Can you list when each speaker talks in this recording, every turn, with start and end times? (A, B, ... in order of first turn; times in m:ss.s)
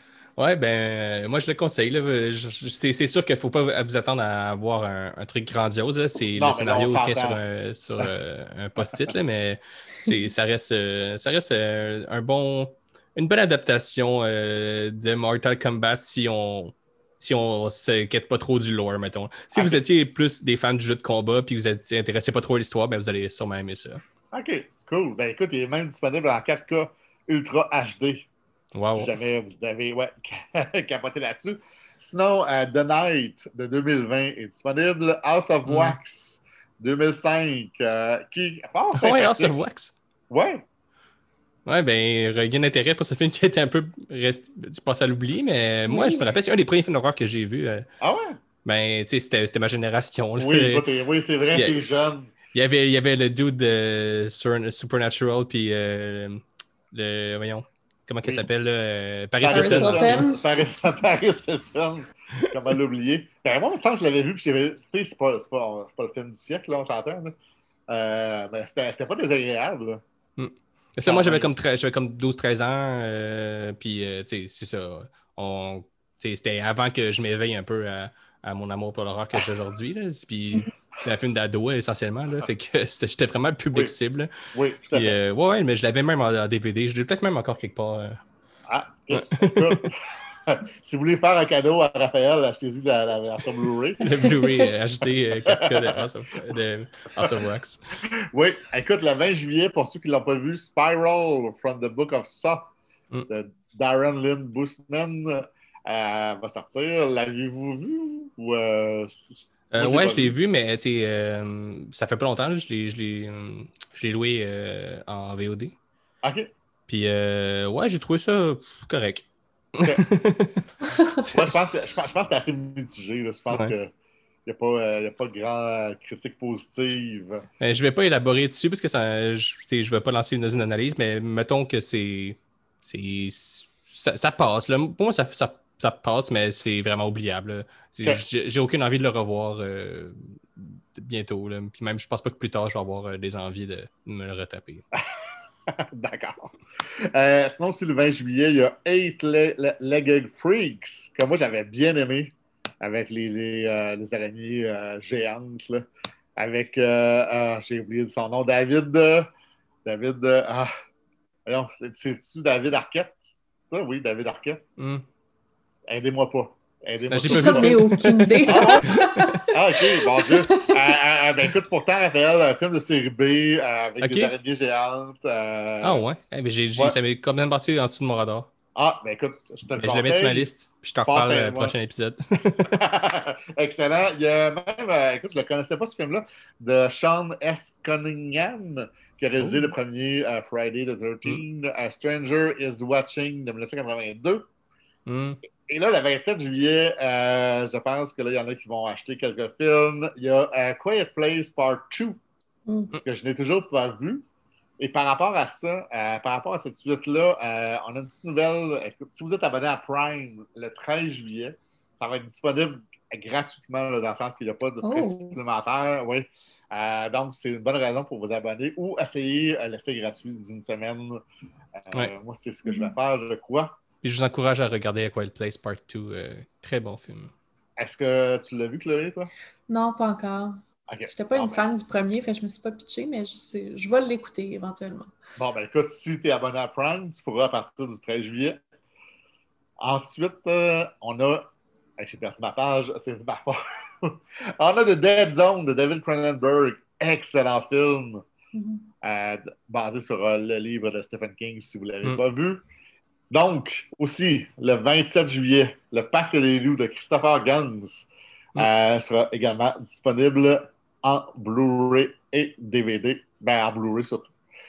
0:00.4-0:24.0 A
0:06.4-0:07.4 B
0:19.5-0:19.8 B
0:24.3-0:28.3 B
0:28.8-0:29.1 A
0:28.9-0:39.5 B
0:35.7-0:36.0 A
0:38.9-0:39.9 A
0:40.3-0:40.6 B
0:41.7-0:47.9 A
0:45.9-0:46.2 C
0:48.0-0:48.4 B
0:48.6-0:50.8 A
0:50.4-0:52.3 B
0:51.5-0:51.8 A
0:52.5-1:00.2 A
0:59.4-1:07.3 B
0:59.5-1:00.4 C
1:07.9-1:10.0 B
1:10.4-1:24.3 A
1:11.1-1:11.5 B
1:24.5-1:25.2 B
1:24.9-1:28.2 A
1:28.7-1:34.4 B
1:29.1-1:29.8 A
1:34.0-1:37.8 A
1:35.5-1:36.0 B
1:38.3-1:42.7 B
1:43.3-1:49.3 B
1:49.7-1:55.8 A
1:49.8-1:50.3 B
1:56.2-1:56.5 B
1:56.9-1:59.3 A
1:59.8-2:00.7 A
2:00.8-2:01.2 C
2:01.2-2:03.9 B
2:04.5-2:07.4 B
2:07.6-2:24.8 A
2:25.7-2:26.4 B
2:27.1-2:35.9 B
2:36.4-2:39.3 B
2:39.8-2:40.7 B
2:41.5-2:44.6 B
2:44.8-2:45.0 A
2:45.9-2:47.9 B
2:47.1-2:49.4 A
2:47.3-2:49.5 C
2:48.5-2:56.0 B
2:50.2-2:50.8 C
2:54.0-2:54.3 A
2:55.8-2:58.5 A
2:58.8-3:00.5 B
2:59.8-3:02.8 A
3:01.1-3:01.7 B
3:02.6-3:14.5 B
3:09.4-3:09.7 A
3:15.1-3:15.4 A
3:15.7-3:22.2 B
3:22.7-3:23.0 C
3:23.0-3:24.2 B
3:24.8-3:41.2 B
3:34.8-3:35.4 C
3:41.8-3:43.8 B
3:42.7-3:42.9 C
3:44.0-3:47.3 A
3:47.8-3:49.3 B
3:49.7-3:55.1 C
3:50.9-3:51.6 B
3:55.4-3:58.6 B
3:59.8-4:01.5 B
4:02.0-4:08.2 B
4:08.5-4:08.9 C
4:09.0-4:12.6 B
4:13.3-4:24.3 B